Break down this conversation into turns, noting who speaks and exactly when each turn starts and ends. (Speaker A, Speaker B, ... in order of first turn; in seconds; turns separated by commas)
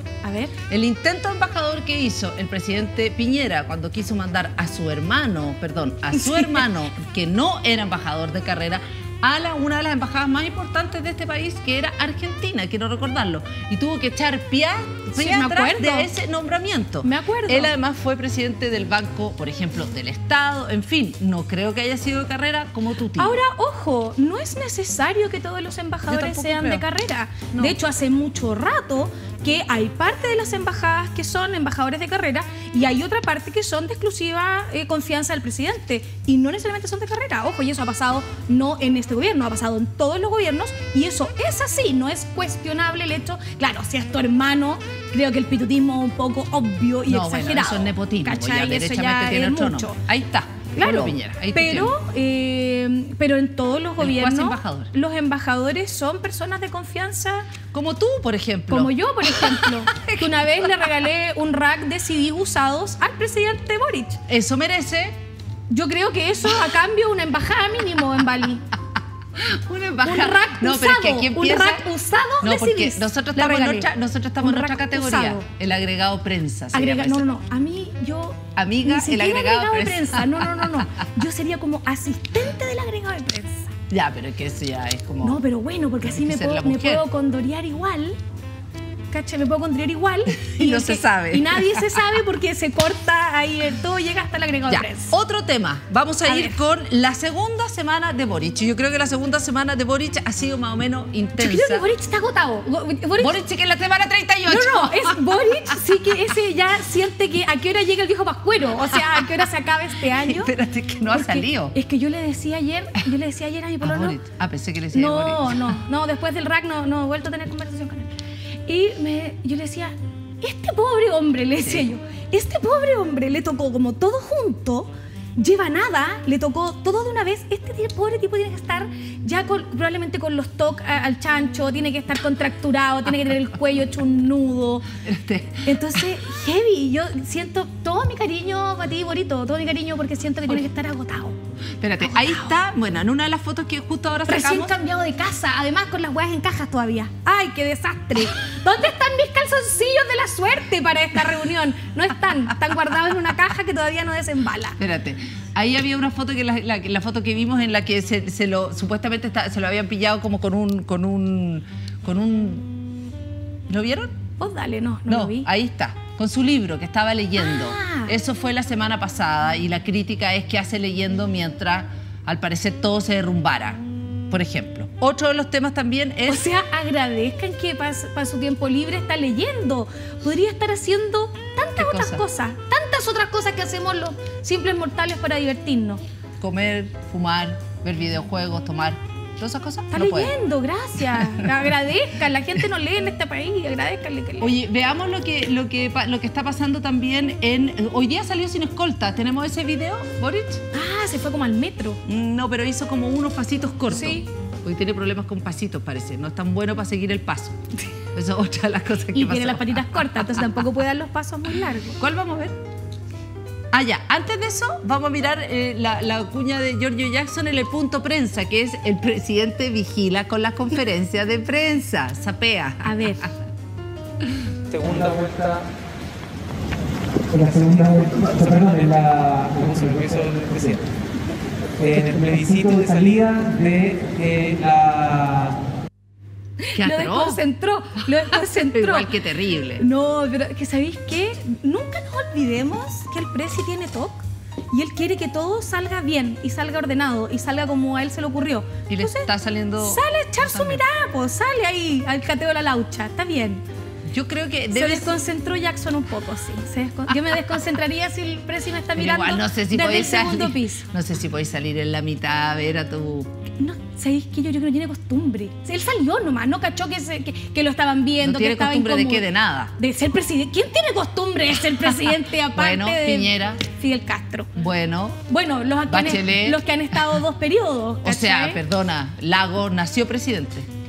Speaker A: 0.2-0.6, Speaker B: 0.7-23.4, Speaker A: 6.1-6.7, Speaker A: 15.2-16.1, Speaker A: 17.0-17.7, Speaker A: 23.2-50.0, Speaker B: 26.1-26.8, Speaker B: 27.5-27.8, Speaker B: 47.1-51.9, Speaker A: 50.8-57.5, Speaker B: 54.0-54.9, Speaker B: 57.7-60.7, Speaker A: 58.7-64.2, Speaker B: 64.3-65.2, Speaker A: 65.7-68.7, Speaker B: 69.4-71.9, Speaker A: 70.0-73.9, Speaker B: 72.4-77.2, Speaker A: 74.4-75.5, Speaker A: 76.7-83.7, Speaker B: 78.6-80.8, Speaker B: 83.9-85.4, Speaker A: 85.2-88.2, Speaker B: 86.0-87.1, Speaker A: 89.1-95.1, Speaker B: 90.4-92.0, Speaker B: 94.7-101.9, Speaker A: 96.3-96.6, Speaker A: 101.4-103.4, Speaker B: 103.2-105.6, Speaker A: 104.5-110.5, Speaker B: 109.0-109.2, Speaker B: 110.2-111.8, Speaker A: 111.1-114.2, Speaker B: 113.8-115.8, Speaker A: 114.9-118.1, Speaker A: 118.7-134.9, Speaker B: 135.0-135.9, Speaker A: 135.7-141.4, Speaker B: 141.8-144.7, Speaker A: 142.0-142.6, Speaker A: 144.3-154.8, Speaker B: 154.8-162.7, Speaker B: 163.7-164.1, Speaker A: 164.4-165.5, Speaker B: 165.1-176.5, Speaker A: 167.4-168.2, Speaker A: 176.3-186.0, Speaker B: 181.8-182.2, Speaker B: 186.4-190.3, Speaker A: 189.9-194.5, Speaker B: 194.4-200.6, Speaker A: 200.7-202.0, Speaker B: 202.1-207.6, Speaker A: 203.9-204.2, Speaker B: 208.1-210.2, Speaker A: 209.1-212.0, Speaker B: 212.0-212.6, Speaker B: 213.7-223.3, Speaker A: 222.8-223.2, Speaker C: 224.7-225.7, Speaker C: 227.3-230.8, Speaker C: 231.8-235.6, Speaker A: 236.6-239.1, Speaker B: 236.8-237.4, Speaker B: 238.3-239.8, Speaker A: 239.8-253.6, Speaker B: 248.9-250.8, Speaker B: 254.1-255.2, Speaker A: 254.7-260.9, Speaker B: 259.0-263.3, Speaker A: 263.6-269.3, Speaker B: 268.2-269.7, Speaker A: 269.8-274.5, Speaker B: 272.6-273.6, Speaker B: 274.6-275.2, Speaker A: 275.3-278.6, Speaker B: 275.9-276.6, Speaker B: 278.0-280.7